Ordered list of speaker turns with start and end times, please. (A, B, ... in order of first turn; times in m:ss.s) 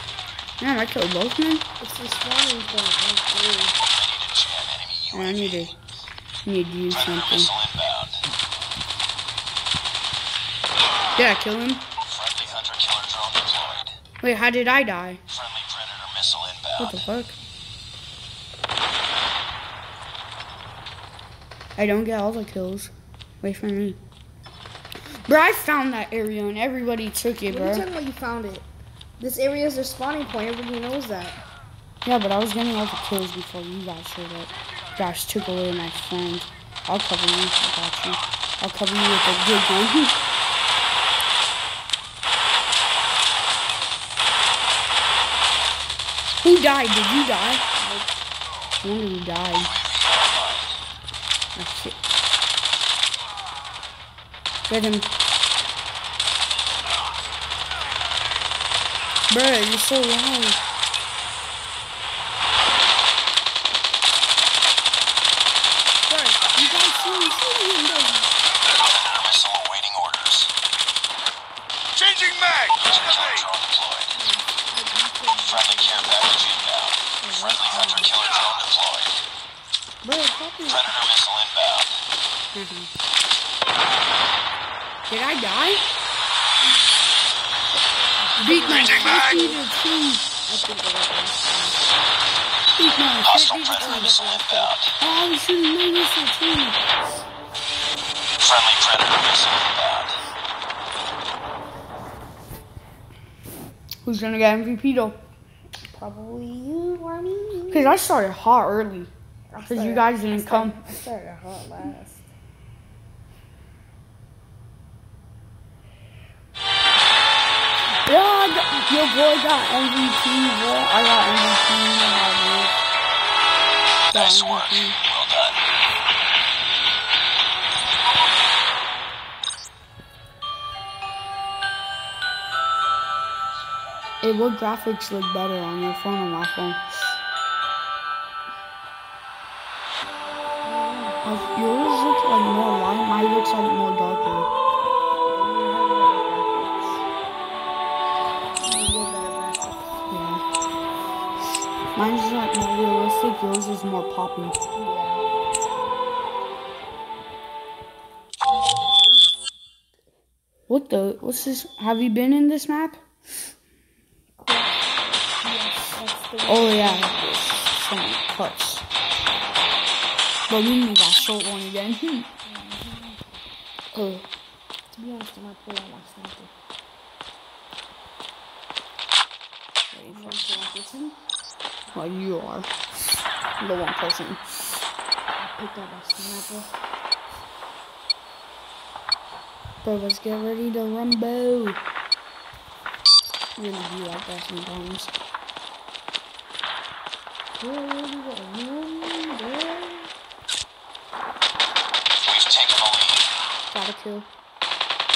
0:00.6-0:01.6 A
0:01.8-0:03.8 B
0:04.0-0:05.6 C
0:05.1-0:05.8 A
0:06.4-0:07.5 A
0:07.1-0:08.2 C
0:11.2-0:11.8 A
0:12.1-0:13.9 C
0:14.2-0:15.2 A
0:15.3-0:17.0 C
0:16.8-0:17.4 A
0:21.8-0:24.0 A
0:25.2-0:27.8 A
0:27.5-0:28.7 B
0:29.2-0:31.4 B
0:32.0-0:40.2 A
0:46.4-0:47.6 A
0:47.8-0:48.2 B
0:48.8-0:49.7 A
0:49.9-0:50.6 C
0:51.5-0:52.0 A
0:54.7-0:55.1 A
0:59.3-1:00.6 A
1:06.1-1:08.3 B
1:06.8-1:07.3 A
1:08.8-1:10.5 C
1:12.8-1:14.0 C
1:14.1-1:16.6 B
1:15.5-1:19.1 C
1:17.2-1:18.2 B
1:20.0-1:20.4 A
1:20.0-1:20.8 B
1:20.7-1:21.9 C
1:22.5-1:22.9 A
1:25.0-1:25.8 A
1:28.2-1:29.6 B
1:28.4-1:30.3 A
1:30.4-1:31.9 B
1:32.8-1:34.2 A
1:33.3-1:34.9 C
1:33.7-1:34.8 B
1:35.0-1:36.8 A
1:38.4-1:40.2 C
1:44.0-1:45.2 A
1:45.8-1:48.0 B
1:47.7-1:49.1 A
1:49.5-1:52.2 B
1:49.6-1:50.8 A
1:58.0-2:02.7 A
2:04.1-2:05.0 A
2:04.1-2:05.6 C
2:14.2-2:16.8 A
2:20.6-2:21.2 B
2:21.2-2:24.5 A
2:25.2-2:27.0 B
2:28.6-2:30.0 B
2:30.1-2:30.4 A
2:31.9-2:34.6 A
2:34.7-2:35.3 B
2:40.7-2:43.0 A
2:44.4-2:47.2 B
2:46.4-2:48.8 A
2:50.5-2:52.3 A
2:52.4-2:53.2 B
2:53.9-2:54.2 A
2:54.9-2:56.5 B
2:59.9-3:00.4 A
3:00.1-3:01.2 B
3:01.9-3:02.7 A
3:03.6-3:04.4 A
3:05.4-3:06.7 B
3:09.8-3:11.8 A
3:13.6-3:15.1 A
3:17.6-3:20.1 B
3:22.3-3:23.2 C
3:23.7-3:24.3 A